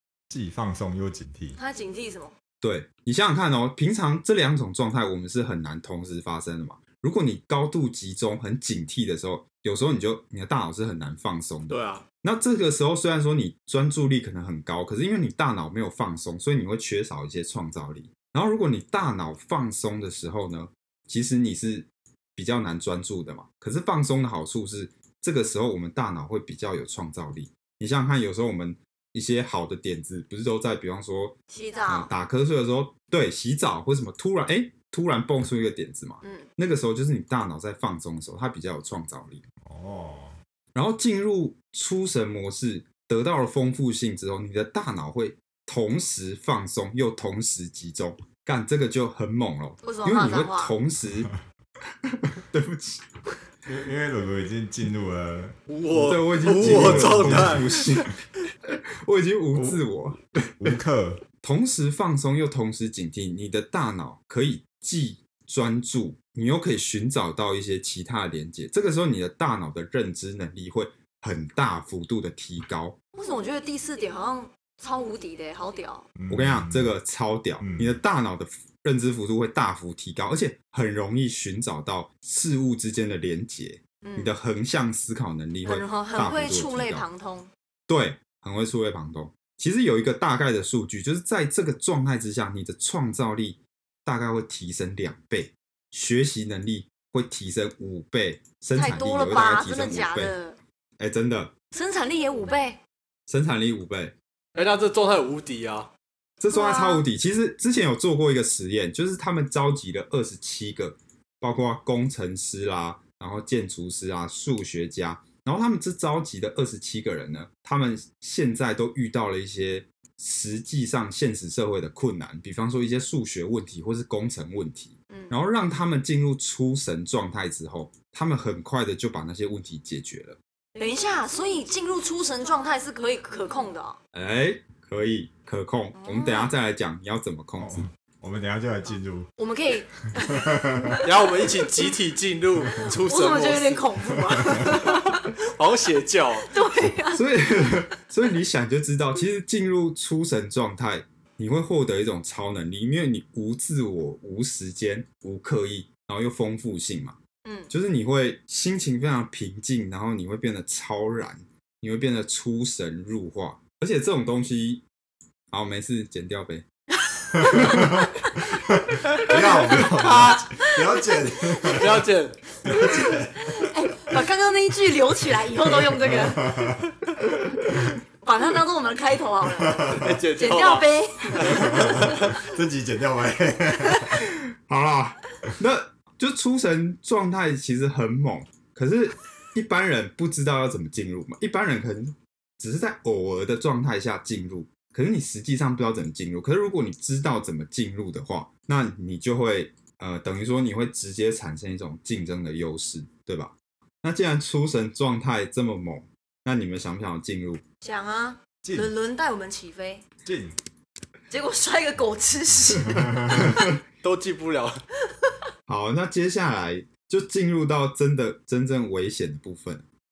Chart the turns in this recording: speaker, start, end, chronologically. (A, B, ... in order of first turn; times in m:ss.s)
0:00.3-0:01.6 A
0:01.6-0:02.3 B
0:02.6-0:31.4 C
0:11.7-0:12.0 D
0:31.5-0:32.1 B
0:31.9-0:39.4 C
0:36.2-0:36.5 B
0:39.6-0:40.4 A
0:40.7-0:51.3 C
0:49.8-0:50.7 B
0:52.3-0:53.1 C
0:53.7-0:55.6 A
0:55.7-0:58.1 D
0:55.9-0:58.1 C
0:56.5-0:57.8 A
0:58.7-1:00.6 C
0:59.6-0:59.8 A
1:00.6-1:01.2 A
1:01.4-1:13.0 C
1:13.1-1:16.1 B
1:16.2-1:16.9 A
1:16.3-1:27.1 C
1:17.6-1:18.0 A
1:24.0-1:24.3 B
1:25.6-1:27.5 B
1:27.9-1:40.4 C
1:38.7-1:40.6 B
1:41.0-1:41.5 C
1:41.7-1:42.8 B
1:43.3-1:44.2 C
1:44.6-1:45.9 D
1:46.4-2:10.4 C
1:46.5-1:47.1 B
2:10.8-2:14.0 B
2:14.1-2:17.9 C
2:16.0-2:16.5 B
2:17.6-2:19.3 A
2:19.4-2:21.2 B
2:20.2-2:20.9 A
2:21.0-2:23.9 D
2:22.8-2:25.3 B
2:24.9-2:26.5 D
2:26.4-2:27.2 B
2:27.1-2:37.2 C
2:37.4-2:37.7 B
2:37.7-2:44.8 C
2:45.5-2:46.7 C
2:47.0-2:48.5 B
2:47.7-2:48.1 C
2:48.7-2:52.1 A
2:49.2-2:51.9 B
2:49.8-2:50.4 D
2:51.7-2:52.5 D
2:52.6-2:53.3 A
2:52.6-2:56.8 B
2:55.8-2:56.8 A
2:58.2-3:02.3 B
2:59.6-3:00.1 A
2:59.9-3:02.2 D
3:01.5-3:04.2 A
3:04.2-3:27.6 C
3:27.8-3:30.0 B
3:28.6-3:28.9 A
3:30.2-3:30.6 A
3:31.3-3:33.5 B
3:32.9-3:33.5 A
3:33.3-3:33.7 C
3:34.0-3:34.8 D
3:35.7-3:39.9 C